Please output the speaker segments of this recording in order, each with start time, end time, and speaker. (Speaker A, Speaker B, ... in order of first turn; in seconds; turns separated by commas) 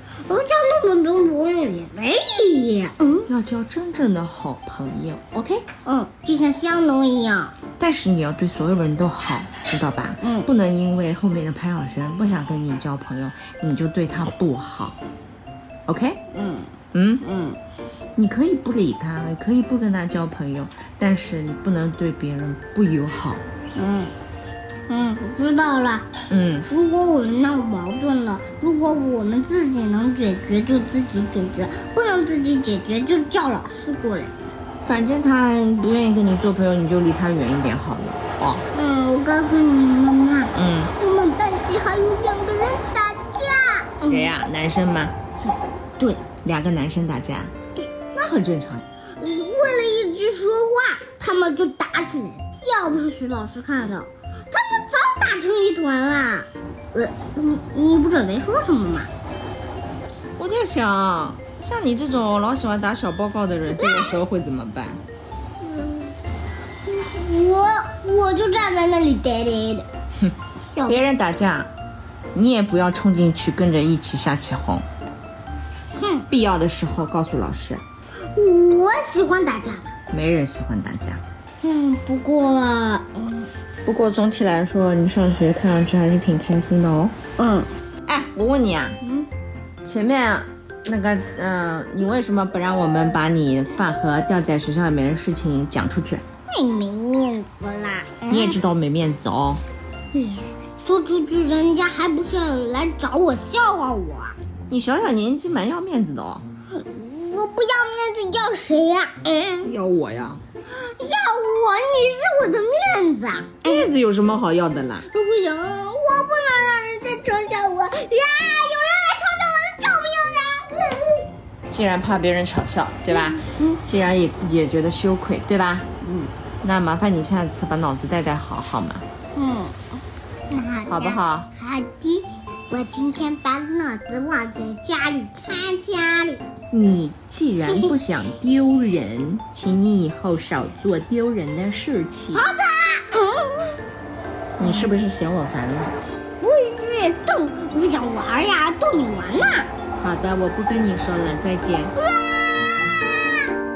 Speaker A: 0.3-3.3, Speaker B: 3.3-5.7, Speaker A: 5.8-7.5, Speaker B: 7.8-15.0, Speaker A: 10.2-10.5, Speaker B: 15.9-16.2, Speaker A: 16.3-17.6, Speaker B: 16.9-17.2, Speaker B: 18.2-23.4, Speaker A: 23.8-24.1, Speaker A: 24.9-26.1, Speaker B: 26.3-26.7, Speaker A: 26.7-34.3, Speaker B: 34.9-38.6, Speaker A: 38.7-44.4, Speaker B: 40.5-40.9, Speaker B: 44.0-45.1, Speaker A: 45.4-46.2, Speaker B: 46.4-47.5, Speaker B: 48.1-48.9, Speaker A: 49.2-59.1, Speaker B: 60.4-65.0, Speaker A: 63.8-64.2, Speaker A: 65.6-66.1, Speaker A: 66.8-69.9, Speaker A: 70.8-71.0, Speaker B: 70.9-71.7, Speaker B: 72.3-74.9, Speaker A: 76.0-76.3, Speaker B: 76.3-77.8, Speaker A: 78.3-79.9, Speaker B: 80.1-81.2, Speaker A: 81.6-83.5, Speaker B: 83.9-87.2, Speaker A: 87.4-87.7, Speaker B: 88.1-89.0, Speaker A: 89.0-89.3, Speaker B: 89.8-96.2, Speaker A: 96.5-98.6, Speaker B: 98.3-99.6, Speaker A: 100.1-104.4, Speaker B: 104.7-106.5, Speaker A: 106.7-109.7, Speaker B: 109.6-110.4, Speaker A: 110.7-113.9, Speaker B: 113.6-115.1, Speaker A: 115.1-121.3, Speaker B: 121.7-125.9, Speaker A: 123.1-123.8, Speaker A: 126.0-126.3, Speaker B: 126.6-129.1, Speaker A: 129.4-136.4, Speaker B: 130.9-131.5, Speaker B: 136.7-142.5, Speaker A: 142.3-143.8, Speaker B: 144.6-146.0, Speaker A: 144.6-144.9, Speaker A: 146.4-149.7, Speaker B: 150.0-151.9, Speaker A: 151.9-153.5